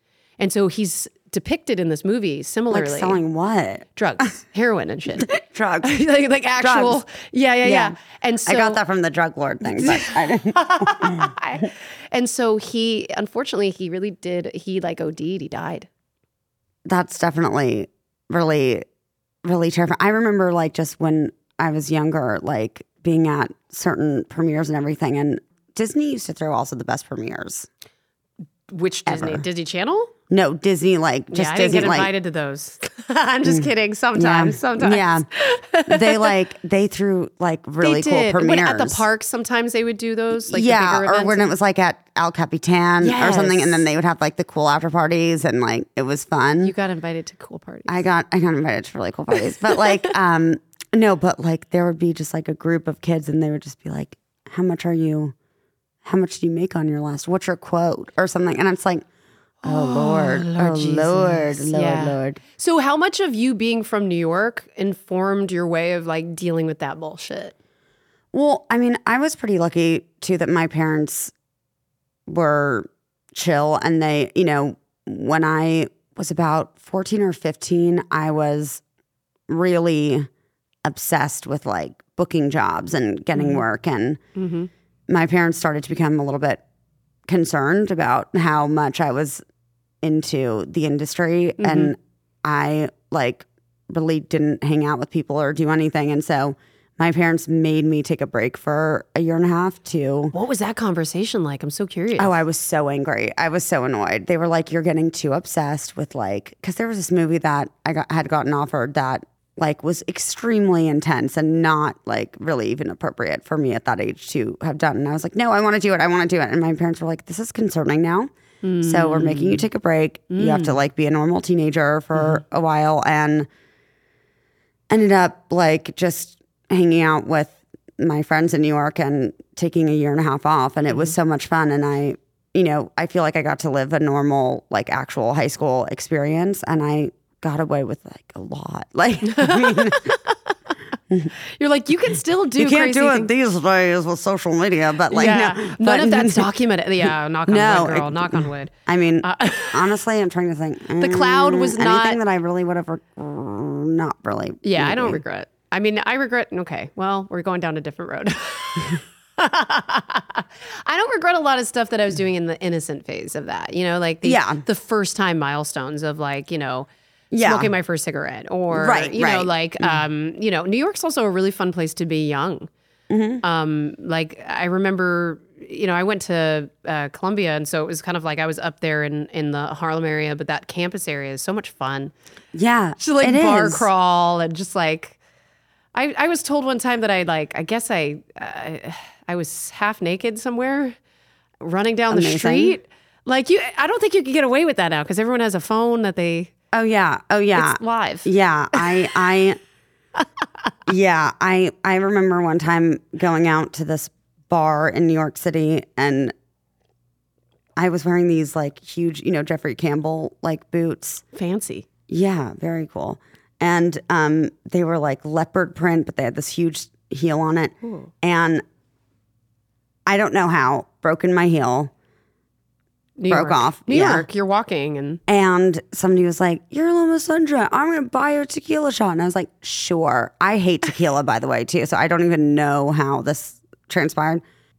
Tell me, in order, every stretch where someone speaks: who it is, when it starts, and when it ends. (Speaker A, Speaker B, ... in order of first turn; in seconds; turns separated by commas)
Speaker A: 0.4-3.2, Speaker B: 2.7-3.9, Speaker A: 4.0-5.3, Speaker B: 5.2-6.0, Speaker A: 5.8-8.8, Speaker B: 6.6-7.0, Speaker B: 7.6-11.3, Speaker A: 9.6-15.9, Speaker B: 16.9-18.9, Speaker B: 19.4-27.7, Speaker A: 28.7-30.1, Speaker B: 29.1-29.4, Speaker B: 30.3-32.1, Speaker A: 31.3-36.3, Speaker B: 33.5-35.2, Speaker B: 35.9-39.0, Speaker A: 37.8-41.5, Speaker B: 40.5-46.7, Speaker A: 43.0-43.9, Speaker A: 46.6-48.0, Speaker B: 47.9-55.3, Speaker B: 56.0-59.0, Speaker A: 59.6-67.5, Speaker B: 59.6-62.4, Speaker B: 68.3-71.3, Speaker B: 72.3-78.8, Speaker B: 79.5-80.3, Speaker B: 80.8-84.2, Speaker A: 83.3-83.6, Speaker A: 84.4-84.7, Speaker B: 85.1-86.6, Speaker B: 87.3-89.4, Speaker B: 90.0-100.3, Speaker A: 91.6-91.9, Speaker A: 100.3-102.4, Speaker B: 102.2-118.3, Speaker A: 118.6-119.6, Speaker B: 118.8-123.5, Speaker A: 120.3-120.8, Speaker A: 122.1-122.4, Speaker B: 124.9-140.1, Speaker A: 139.3-140.4, Speaker A: 141.6-143.3, Speaker B: 142.6-146.5, Speaker A: 145.1-148.7, Speaker B: 147.5-155.2, Speaker A: 149.2-149.9, Speaker A: 151.0-152.2, Speaker A: 154.6-172.7, Speaker B: 164.2-164.6, Speaker B: 167.3-167.7, Speaker B: 168.7-170.0, Speaker B: 173.1-173.4, Speaker A: 173.4-182.1, Speaker B: 182.5-183.9, Speaker A: 183.0-185.2, Speaker A: 185.9-190.9, Speaker A: 191.6-196.5, Speaker B: 192.1-192.8, Speaker B: 196.7-199.6, Speaker A: 197.5-198.9, Speaker B: 200.9-206.3, Speaker B: 207.8-211.2, Speaker A: 211.3-211.9, Speaker B: 212.1-218.6, Speaker A: 217.8-218.1, Speaker B: 220.1-221.9, Speaker A: 223.2-225.2, Speaker B: 223.3-224.2, Speaker B: 225.3-234.4